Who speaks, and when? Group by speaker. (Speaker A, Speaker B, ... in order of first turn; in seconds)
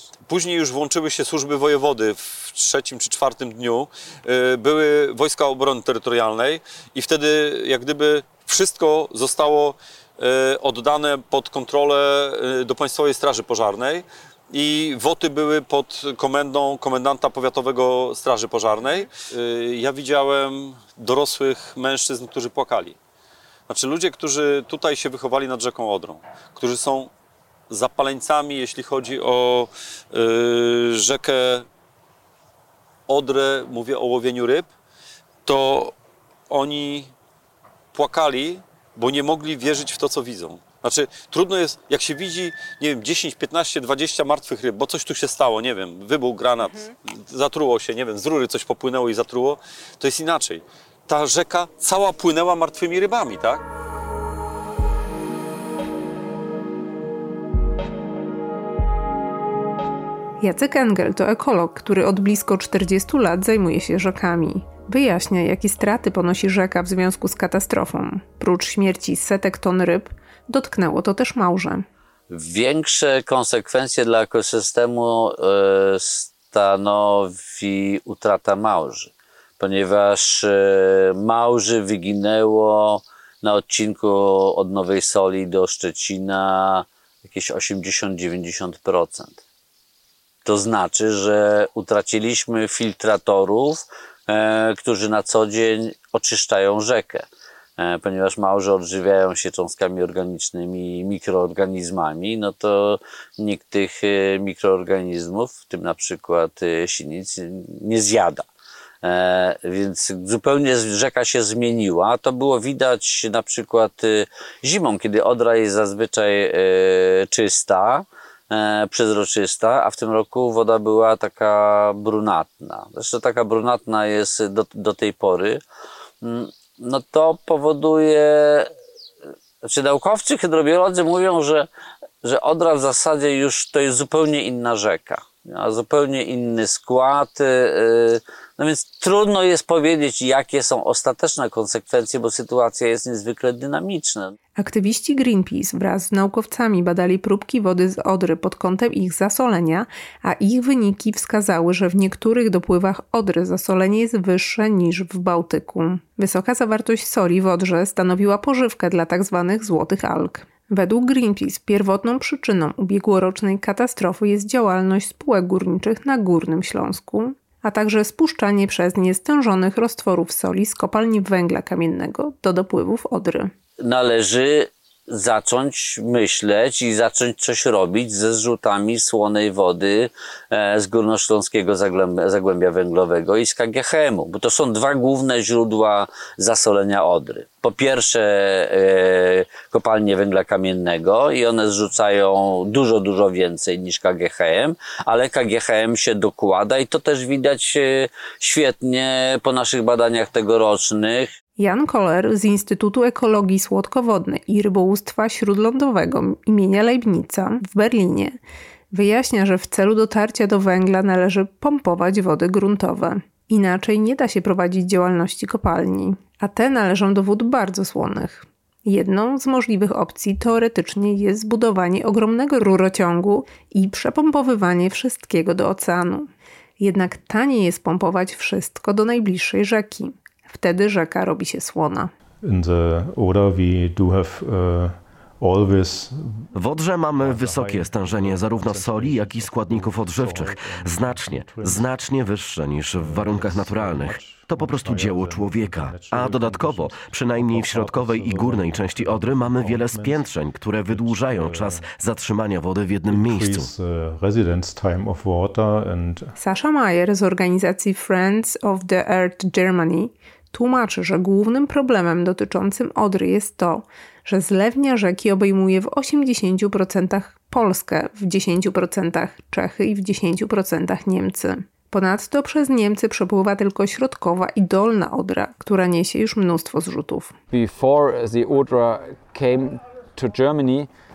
Speaker A: 0.3-23.0, 23.7-27.1, 27.7-31.7, 33.1-34.7, 35.5-35.9, 36.5-37.1, 37.9-53.6
Speaker B: 60.4-71.9, 144.6-173.5, 201.6-208.4, 208.9-226.3, 226.8-232.1, 256.4-277.4
Speaker C: 72.3-89.4, 90.5-97.3, 97.8-108.5, 109.0-125.6, 126.2-128.7, 129.6-131.7, 132.2-144.3, 173.8-201.3
Speaker D: 232.4-236.5, 237.2-242.1, 242.8-251.9, 253.1-256.4
Speaker E: 236.6-253.7
Speaker F: 277.5-280.9